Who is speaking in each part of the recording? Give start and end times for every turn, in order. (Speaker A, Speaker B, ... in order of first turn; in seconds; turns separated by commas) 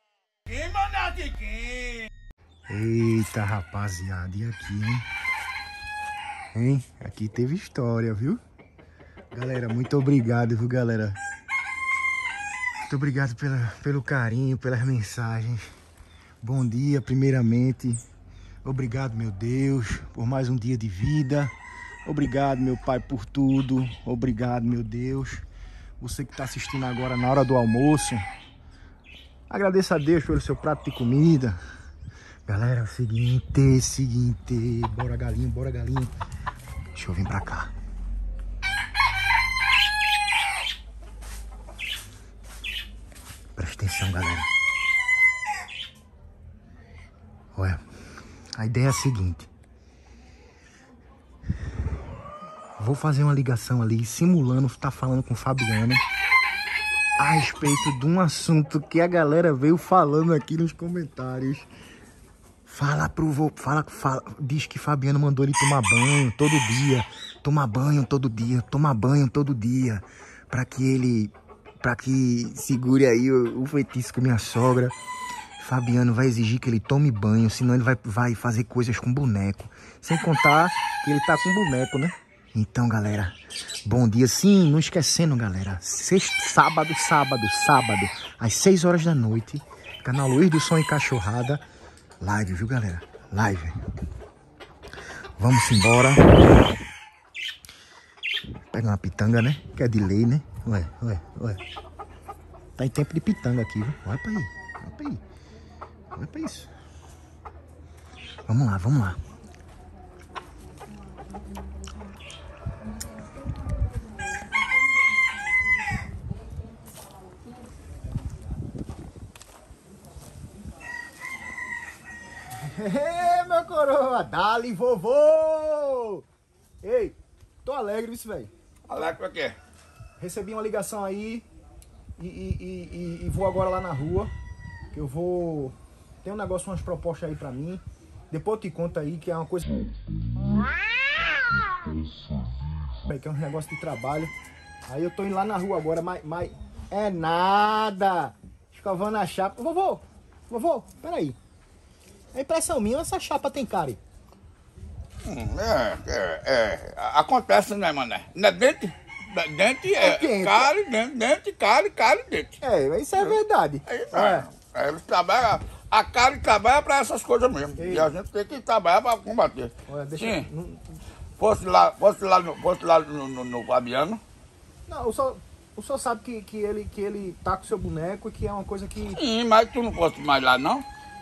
Speaker A: 0.5-2.0, Speaker B: 2.7-5.0, Speaker B: 6.5-8.4, Speaker B: 9.3-11.2, Speaker B: 12.9-15.6, Speaker B: 16.4-18.0, Speaker B: 18.6-21.5, Speaker B: 22.1-25.4, Speaker B: 26.0-28.2, Speaker B: 29.5-31.6, Speaker B: 32.5-36.1, Speaker B: 36.9-37.7, Speaker B: 43.5-44.5, Speaker B: 47.5-47.8, Speaker B: 48.6-49.5, Speaker B: 52.8-56.0, Speaker B: 57.2-61.7, Speaker B: 62.7-75.0, Speaker B: 75.6-91.6, Speaker B: 92.2-93.8, Speaker B: 95.4-96.6, Speaker B: 98.7-101.6, Speaker B: 102.8-105.2, Speaker B: 106.2-106.7, Speaker B: 108.5-109.2, Speaker B: 122.6-126.2, Speaker B: 126.8-128.5, Speaker A: 128.9-129.6, Speaker B: 130.2-131.4, Speaker B: 132.2-134.3, Speaker B: 134.9-139.7, Speaker B: 143.0-144.3, Speaker B: 144.9-151.4, Speaker B: 152.3-154.0, Speaker A: 155.2-162.6, Speaker B: 159.9-160.7, Speaker B: 162.6-164.5, Speaker A: 163.2-170.5, Speaker B: 167.8-168.1, Speaker B: 169.8-170.9, Speaker A: 171.4-174.2, Speaker B: 174.9-179.2, Speaker A: 179.0-180.8